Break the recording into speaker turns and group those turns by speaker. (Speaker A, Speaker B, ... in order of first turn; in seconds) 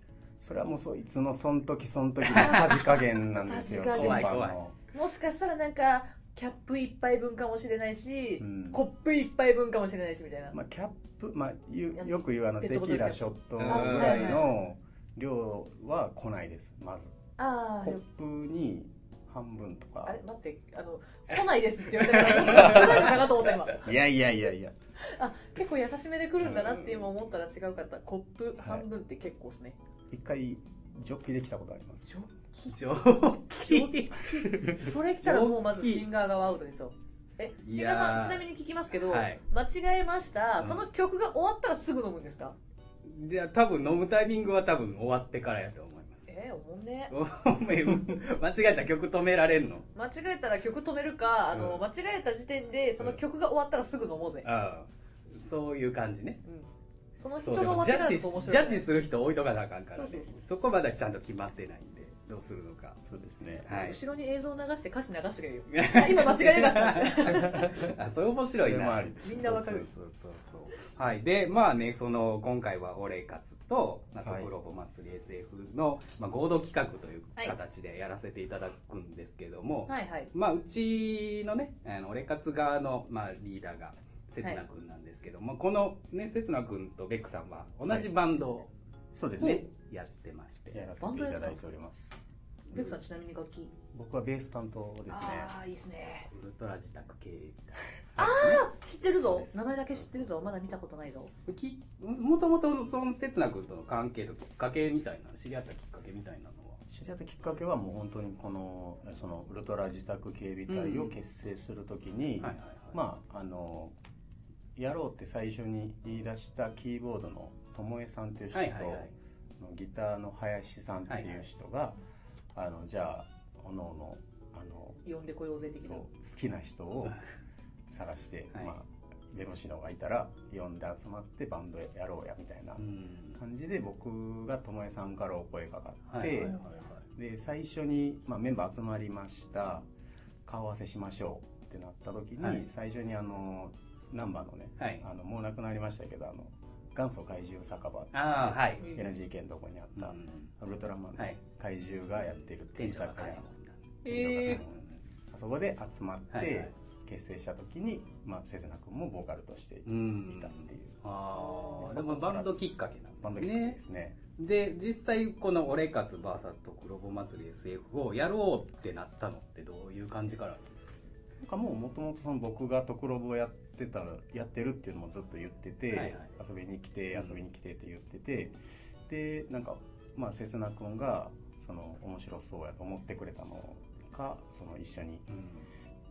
Speaker A: 0.4-4.7, 8.4-8.8, 10.5-17.1, 17.8-20.2, 22.4-23.2, 23.8-24.7, 28.6-28.9, 30.1-32.1, 63.0-63.8, 68.6-69.8, 74.2-74.5, 89.1-89.6, 90.7-92.1, 93.9-95.5, 106.9-113.9, 114.8-122.0, 122.5-125.0, 125.8-127.2, 127.9-136.6, 137.1-139.9, 140.4-153.4, 154.0-161.0, 161.6-162.7, 163.2-164.2, 171.4-185.2
Speaker B: 2.3-2.8, 3.7-4.6, 13.6-14.5, 22.5-23.0, 32.7-36.0, 37.6-39.4, 43.0-46.3, 47.1-49.9, 51.5-51.8, 54.4-56.4, 57.4-63.0, 63.6-64.0, 65.7-88.7, 89.4-90.8, 96.3-98.6, 101.5-106.8, 110.7-111.1, 112.4-112.9, 118.5-119.1, 121.1-121.4, 132.8-133.4, 136.1-137.0, 144.8-145.0, 148.1-148.9, 150.0-150.5, 152.8-153.8, 156.3-156.7, 159.8-163.8, 164.4-171.0, 175.9-176.3, 177.1-177.4, 185.3-185.7
Speaker C: 2.4-4.4, 4.9-10.6, 11.9-14.5, 17.4-18.0, 20.1-23.9, 25.0-29.8, 32.1-32.8, 33.6-42.5, 46.3-47.1, 49.9-54.5, 56.4-58.9, 59.9-60.4, 63.7-67.9, 69.2-69.9, 79.9-80.3, 91.0-91.6, 92.7-93.7, 95.1-96.3, 98.2-101.3, 125.0-126.0, 154.0-154.6, 161.4-161.8